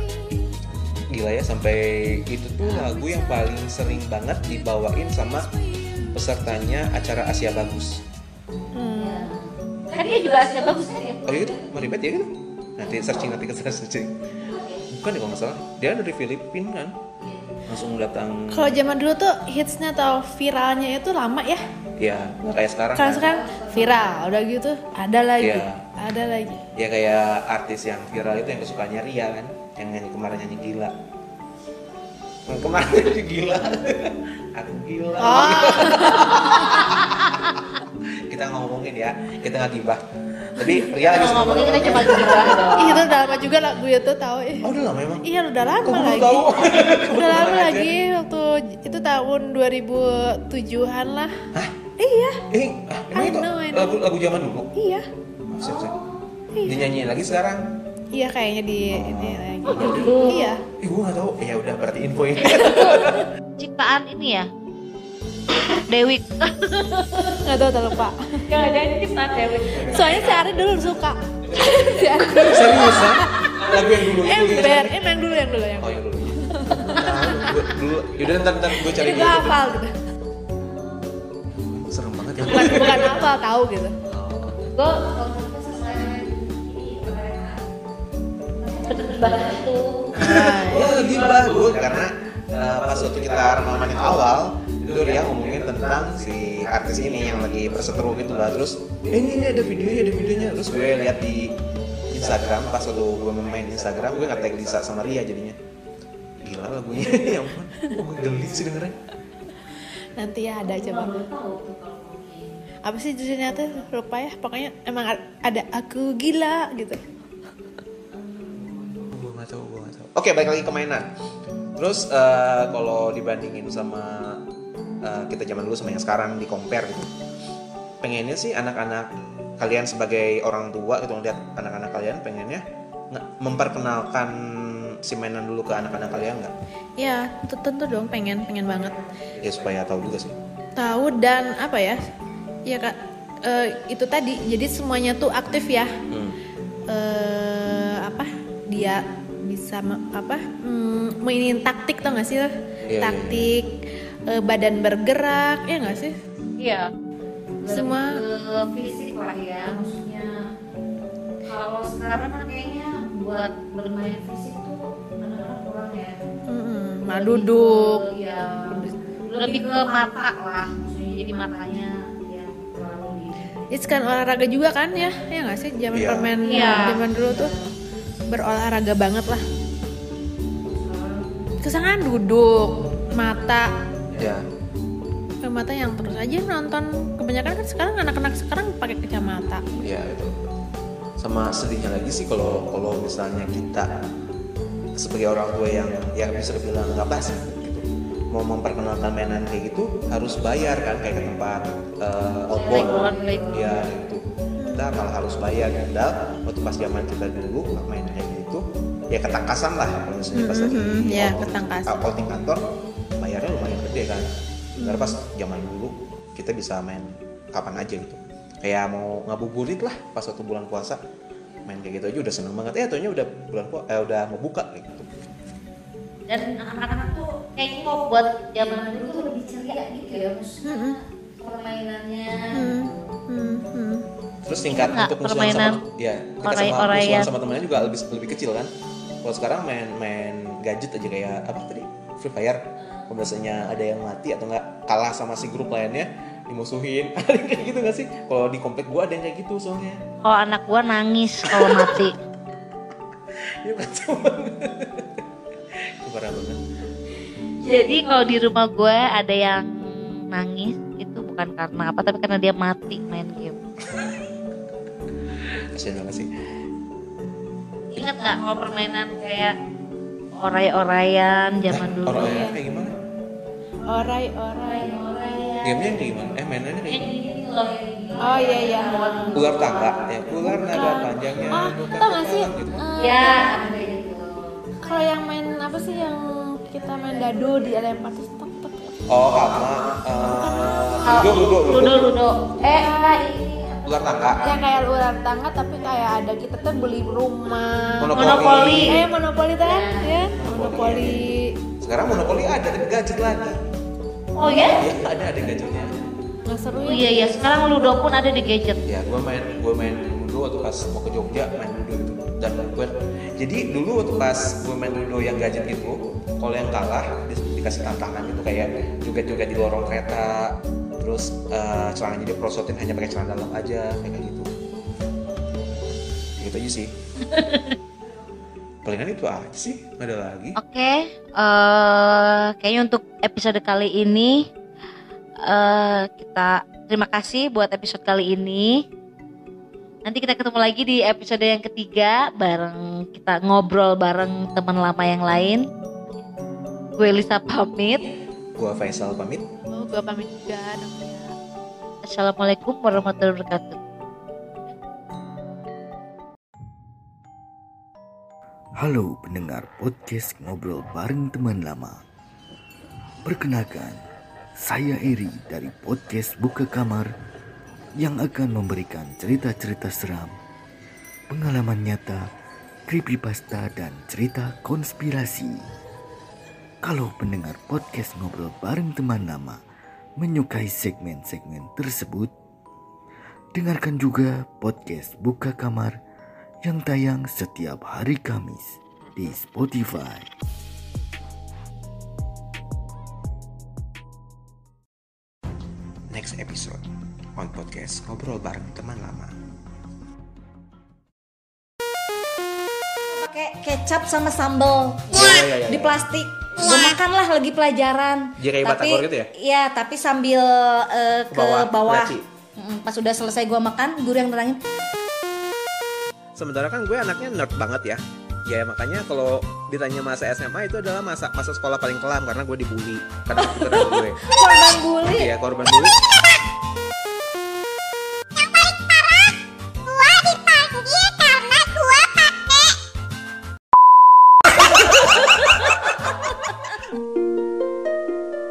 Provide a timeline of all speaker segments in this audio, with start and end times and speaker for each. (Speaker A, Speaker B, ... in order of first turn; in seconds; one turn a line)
Speaker A: 1.1-5.5
Speaker A: 6.1-8.0
Speaker B: 8.7-9.3
Speaker C: 8.9-11.6
Speaker A: 11.2-14.2
Speaker C: 12.8-13.3
Speaker C: 14.4-14.8
Speaker A: 14.9-17.0
Speaker A: 17.7-18.8
Speaker B: 18.5-21.6
Speaker A: 22.0-23.3
Speaker B: 22.9-26.6
Speaker C: 23.1-24.2
Speaker A: 25.4-25.8
Speaker A: 26.7-30.9
Speaker A: 32.5-37.6
Speaker B: 35.2-36.8
Speaker A: 38.3-40.0
Speaker A: 40.5-43.0
Speaker C: 40.9-43.1
Speaker B: 41.3-42.1
Speaker B: 42.7-44.7
Speaker A: 44.6-45.3
Speaker B: 45.2-51.3
Speaker A: 45.8-47.9
Speaker B: 52.0-52.4
Speaker A: 52.5-54.7
Speaker B: 53.1-54.0
Speaker B: 54.7-55.0
Speaker A: 55.5-56.0
Speaker C: 55.6-56.2
Speaker B: 56.5-56.9
Speaker A: 56.6-57.7
Speaker B: 58.1-60.6
Speaker A: 58.9-60.1
Speaker C: 59.7-60.5
Speaker A: 60.8-63.3
Speaker C: 63.6-64.5
Speaker C: 65.6-67.4
Speaker B: 67.4-68.4
Speaker C: 68.5-70.4
Speaker A: 69.7-70.5
Speaker B: 69.9-77.5
Speaker A: 72.2-74.9
Speaker A: 75.8-79.6
Speaker B: 78.8-79.9
Speaker C: 80.8-81.0
Speaker A: 81.5-83.1
Speaker B: 82.5-84.0
Speaker C: 82.6-83.1
Speaker A: 84.1-84.7
Speaker C: 84.7-87.6
Speaker C: 88.6-90.2
Speaker A: 90.1-101.5
Speaker B: 90.2-91.0
Speaker A: 102.1-105.6
Speaker A: 106.4-109.0
Speaker B: 110.2-111.1
Speaker C: 110.6-112.6
Speaker B: 112.8-117.0
Speaker C: 113.6-113.8
Speaker C: 118.1-119.0
Speaker A: 119.1-121.1
Speaker A: 121.8-124.4
Speaker A: 125.0-127.1
Speaker A: 128.0-136.5
Speaker B: 137.0-139.0
Speaker A: 139.4-140.4
Speaker B: 140.8-142.0
Speaker B: 142.7-145.9
Speaker A: 146.1-146.4
Speaker B: 146.9-153.7
Speaker A: 152.9-153.5
Speaker B: 154.3-156.2
Speaker C: 156.6-156.9
Speaker C: 157.6-160.5
Speaker B: 157.7-158.2
Speaker C: 161.4-166.2
Speaker B: 166.5-168.0
Speaker C: 167.1-173.7
Speaker B: 173.7-177.5
Speaker A: 175.9-176.3
Speaker C: 176.4-177.6
Speaker B: 178.3-179.4
Speaker C: 180.7-181.5
Speaker B: 181.6-183.7
Speaker A: 184.1-184.4
Speaker B: 185.4-189.7
Speaker A: 189.8-190.4
Speaker A: 191.2-194.0
Speaker A: 194.9-221.0
Speaker C: 202.5-203.8
Speaker B: 204.6-204.9
Speaker B: 210.3-212.0
Speaker B: 214.8-215.2
Speaker A: 221.6-225.1
Speaker C: 226.3-233.0
Speaker B: 230.6-231.0
Speaker B: 232.5-234.0
Speaker A: 234.4-238.7
Speaker C: 234.7-235.8
Speaker C: 236.4-237.3
Speaker A: 239.2-250.0
Speaker C: 250.2-252.1
Speaker A: 251.4-252.0
Speaker A: 253.6-255.2
Speaker A: 256.0-256.6
Speaker C: 257.6-259.7
Speaker C: 260.3-263.6
Speaker A: 265.7-266.3
Speaker C: 267.9-269.6
Speaker C: 270.4-272.5
Speaker A: 271.7-273.0
Speaker B: 273.9-274.9
Speaker C: 274.5-275.9
Speaker A: 275.6-277.1
Speaker C: 276.9-280.0
Speaker B: 278.2-279.4
Speaker A: 279.3-282.8
Speaker B: 280.5-283.6
Speaker C: 283.0-284.6
Speaker B: 284.8-289.1
Speaker A: 289.1-292.1
Speaker B: 290.3-290.9
Speaker C: 291.0-293.8
Speaker A: 293.8-294.6
Speaker B: 294.4-301.6
Speaker A: 298.0-299.0
Speaker C: 298.1-299.0
Speaker C: 299.6-300.2
Speaker A: 300.3-301.3
Speaker A: 301.8-303.6
Speaker C: 304.4-304.8
Speaker A: 304.6-305.9
Speaker B: 306.4-307.3
Speaker C: 306.8-308.8
Speaker A: 308.9-324.5
Speaker A: 326.4-326.9
Speaker C: 327.3-327.8
Speaker A: 328.8-330.6
Speaker C: 330.6-334.5
Speaker C: 335.4-338.8
Speaker C: 340.0-345.6
Speaker C: 347.0-348.1
Speaker A: 348.6-349.4
Speaker B: 349.7-351.3
Speaker C: 352.1-353.8
Speaker D: 358.8-362.0
Speaker D: 363.2-364.0
Speaker D: 364.6-367.1
Speaker D: 368.0-370.3
Speaker D: 371.3-372.2
Speaker D: 372.9-375.6
Speaker D: 376.8-379.6
Speaker D: 380.2-382.3
Speaker D: 383.5-385.9
Speaker D: 386.6-390.3
Speaker A: 396.1-396.8
Speaker A: 397.4-399.3
Speaker E: 403.1-414.6
Speaker A: 405.1-406.0
Speaker A: 408.4-409.3
Speaker A: 411.3-412.2
Speaker A: 416.4-424.3
Speaker E: 423.6-426.4
Speaker A: 425.0-426.0
Speaker E: 428.3-432.8